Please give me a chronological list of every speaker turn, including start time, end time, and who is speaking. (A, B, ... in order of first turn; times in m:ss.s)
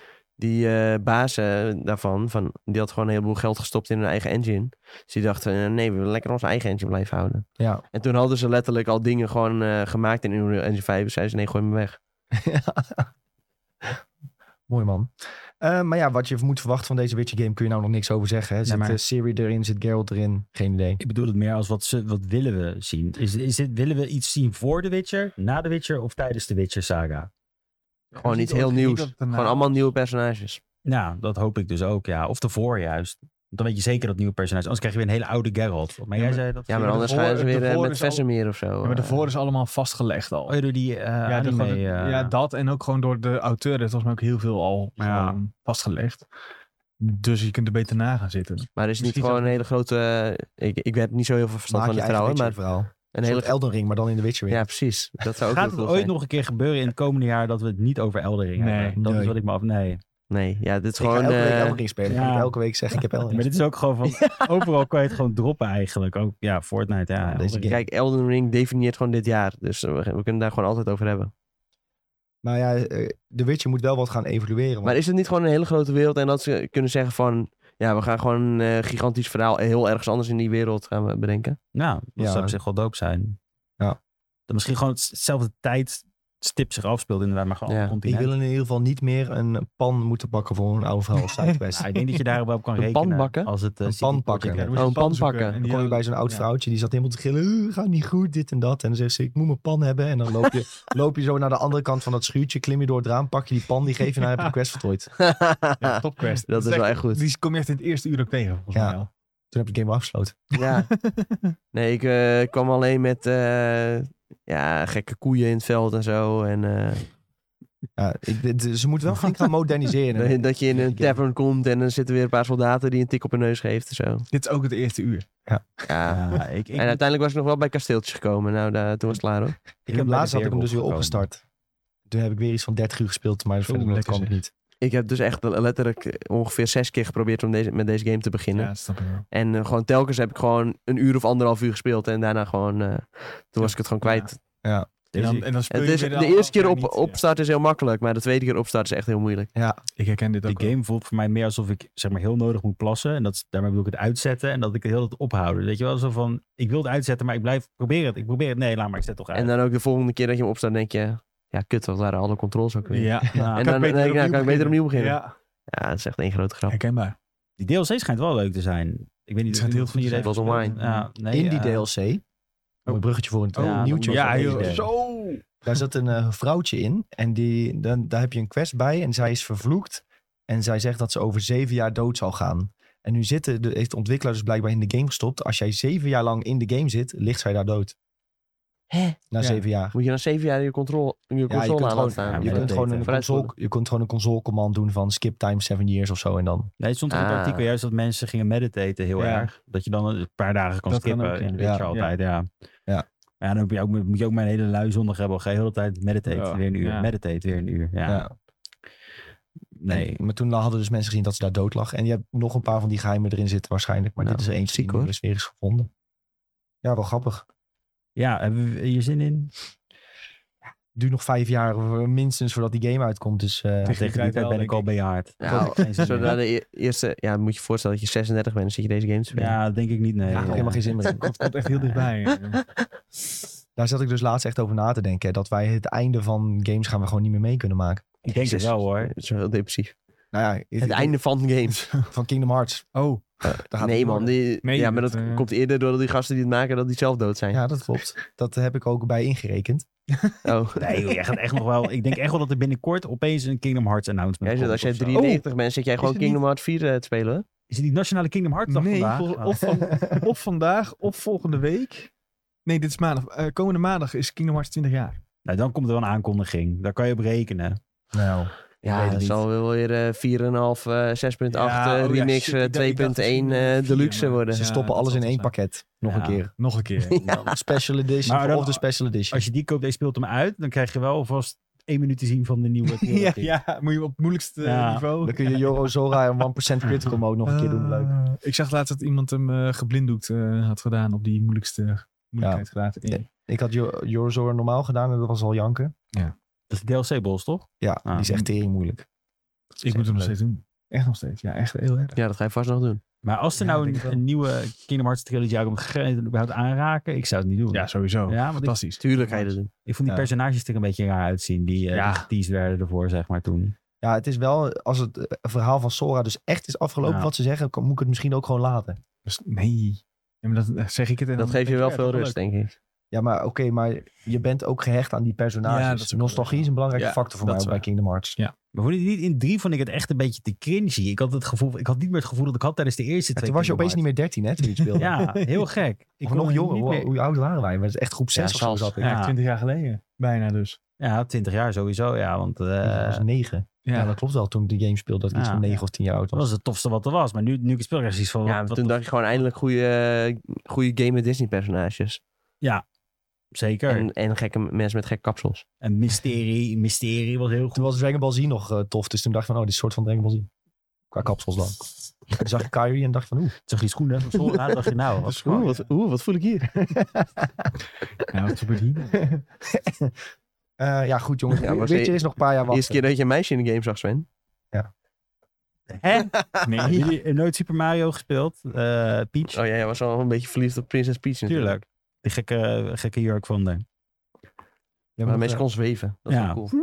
0:00.4-0:12.0 A
0:07.6-0:07.8 B
0:12.4-0:13.1 B
0:14.7-0:21.0 B
0:18.7-0:19.0 C
0:21.0-0:27.3 C
0:28.1-0:29.9 D
0:28.2-0:30.6 A
0:30.8-0:37.2 C
0:36.2-0:38.2 D
0:36.7-0:39.3 A
0:38.8-0:40.6 D
0:40.5-0:42.3 C
0:41.2-0:46.3 D
0:45.0-0:45.4 C
0:47.0-0:49.6 D
0:48.8-0:52.6 A
0:51.7-0:54.6 B
0:53.1-0:53.5 A
0:54.5-0:56.1 A
0:55.5-1:00.0 C
0:58.6-0:59.0 D
0:59.0-0:59.4 B
1:00.3-1:01.8 A
1:01.0-1:03.5 B
1:02.1-1:02.6 C
1:03.3-1:07.8 C
1:07.2-1:07.8 B
1:07.6-1:11.3 A
1:12.4-1:15.0 B
1:14.8-1:21.6 A
1:21.7-1:23.4 C
1:22.2-1:22.6 B
1:24.5-1:28.3 C
1:27.7-1:28.0 A
1:28.0-1:32.0 B
1:31.7-1:35.0 C
1:32.8-1:33.5 A
1:33.9-1:34.7 B
1:34.6-1:36.5 D
1:34.8-1:35.6 A
1:35.6-1:45.1 B
1:44.2-1:44.5 D
1:45.2-1:47.2 A
1:45.8-1:49.1 D
1:49.5-1:50.5 B
1:50.6-1:50.9 A
1:50.8-1:51.6 D
1:51.7-1:57.1 A
1:58.0-2:01.2 B
2:00.2-2:04.3 A
2:04.3-2:05.3 D
2:05.9-2:09.6 A
2:06.1-2:07.0 C
2:09.8-2:11.4 B
2:09.9-2:11.3 C
2:12.1-2:14.5 B
2:13.6-2:14.4 D
2:14.8-2:18.7 A
2:18.6-2:19.3 D
2:19.3-2:24.4 A
2:23.6-2:24.3 D
2:24.6-2:24.9 B
2:25.1-2:25.5 C
2:25.2-2:27.2 D
2:25.7-2:29.5 A
2:29.6-2:29.8 B
2:30.0-2:30.7 D
2:30.5-2:39.5 C
2:39.3-2:46.8 A
2:42.9-2:45.3 D
2:43.3-2:43.7 C
2:46.7-2:47.2 D
2:47.6-2:51.9 C
2:49.5-2:51.1 D
2:50.2-2:50.8 A
2:51.3-2:52.2 B
2:52.9-2:54.9 B
2:53.6-2:54.9 C
2:53.6-2:55.6 D
2:55.6-3:08.0 B
3:08.9-3:09.2 A
3:09.3-3:10.0 B
3:09.4-3:09.6 D
3:09.9-3:13.5 A
3:11.5-3:16.7 B
3:12.3-3:13.1 C
3:16.8-3:22.5 C
3:17.1-3:17.7 A
3:19.2-3:19.5 D
3:20.9-3:22.1 D
3:21.6-3:21.9 B
3:23.4-3:28.3 C
3:26.3-3:27.1 D
3:28.1-3:28.3 B
3:29.8-3:30.2 C
3:29.9-3:35.9 B
3:34.2-3:35.1 A
3:36.8-3:37.5 B
3:38.2-3:39.5 C
3:41.0-3:44.0 B
3:43.8-3:44.9 D
3:43.8-3:46.4 C
3:45.4-3:49.6 A
3:45.5-3:45.8 B
3:49.3-3:50.9 C
3:50.3-3:51.3 B
3:50.4-3:52.6 D
3:53.8-3:58.1 B
3:58.2-3:59.1 C
3:58.3-4:00.0 A
4:00.3-4:01.2 B
4:00.8-4:01.9 A
4:02.1-4:02.9 B
4:03.0-4:03.3 D
4:03.4-4:07.6 A
4:03.5-4:04.3 B
4:04.6-4:05.5 D
4:07.5-4:09.9 B
4:10.4-4:11.1 A
4:10.8-4:15.3 C
4:14.4-4:17.4 A
4:15.1-4:15.4 D
4:16.0-4:16.4 D
4:17.7-4:19.7 C
4:18.7-4:22.1 D
4:19.8-4:20.2 B
4:22.7-4:25.2 D
4:25.4-4:27.8 C
4:28.1-4:29.3 B
4:28.8-4:34.7 A
4:28.9-4:29.4 C
4:31.5-4:35.5 D
4:34.6-4:36.5 B
4:36.1-4:36.4 C
4:36.6-4:37.2 D
4:37.1-4:37.6 A
4:37.2-4:37.6 C
4:37.4-4:39.4 B
4:38.2-4:43.5 C
4:42.9-4:46.2 D
4:44.6-4:45.1 C
4:45.2-4:48.2 B
4:47.4-4:53.2 D
4:52.4-4:55.9 B
4:56.7-4:58.3 C
4:57.8-4:59.0 B
4:59.8-5:02.2 D
4:59.9-5:00.3 B
5:02.2-5:03.0 A
5:03.2-5:08.8 C
5:03.6-5:04.2 D
5:07.7-5:09.5 D
5:09.0-5:09.7 A
5:09.9-5:13.8 C
5:11.9-5:12.3 D
5:14.0-5:19.0 B
5:17.0-5:17.3 C
5:19.2-5:22.4 D
5:21.4-5:22.7 A
5:23.1-5:28.4 B
5:25.6-5:27.8 D
5:28.7-5:34.0 C
5:33.4-5:35.1 B
5:34.8-5:35.6 D
5:35.0-5:37.1 C
5:36.2-5:39.1 B
5:38.3-5:38.9 A
5:39.0-5:40.8 D
5:39.0-5:39.4 C
5:41.0-5:43.2 C
5:42.8-5:46.5 B
5:43.8-5:44.2 D
5:45.3-5:45.8 C
5:46.3-5:49.0 C
5:48.5-5:52.2 A
5:53.5-5:54.1 C
5:53.9-5:55.6 A
5:55.8-5:57.9 C
5:57.7-6:00.5 B
6:01.1-6:03.6 B
6:03.7-6:05.7 C
6:05.2-6:06.7 A
6:05.2-6:05.9 D
6:06.7-6:07.7 B
6:08.3-6:09.3 D
6:09.2-6:10.1 B
6:10.8-6:13.0 B
6:11.6-6:14.3 A
6:15.9-6:19.6 C
6:16.2-6:16.8 A
6:16.6-6:17.2 D
6:19.5-6:21.8 A
6:21.5-6:23.8 C
6:25.2-6:25.6 B
6:25.3-6:26.7 A
6:26.3-6:26.6 C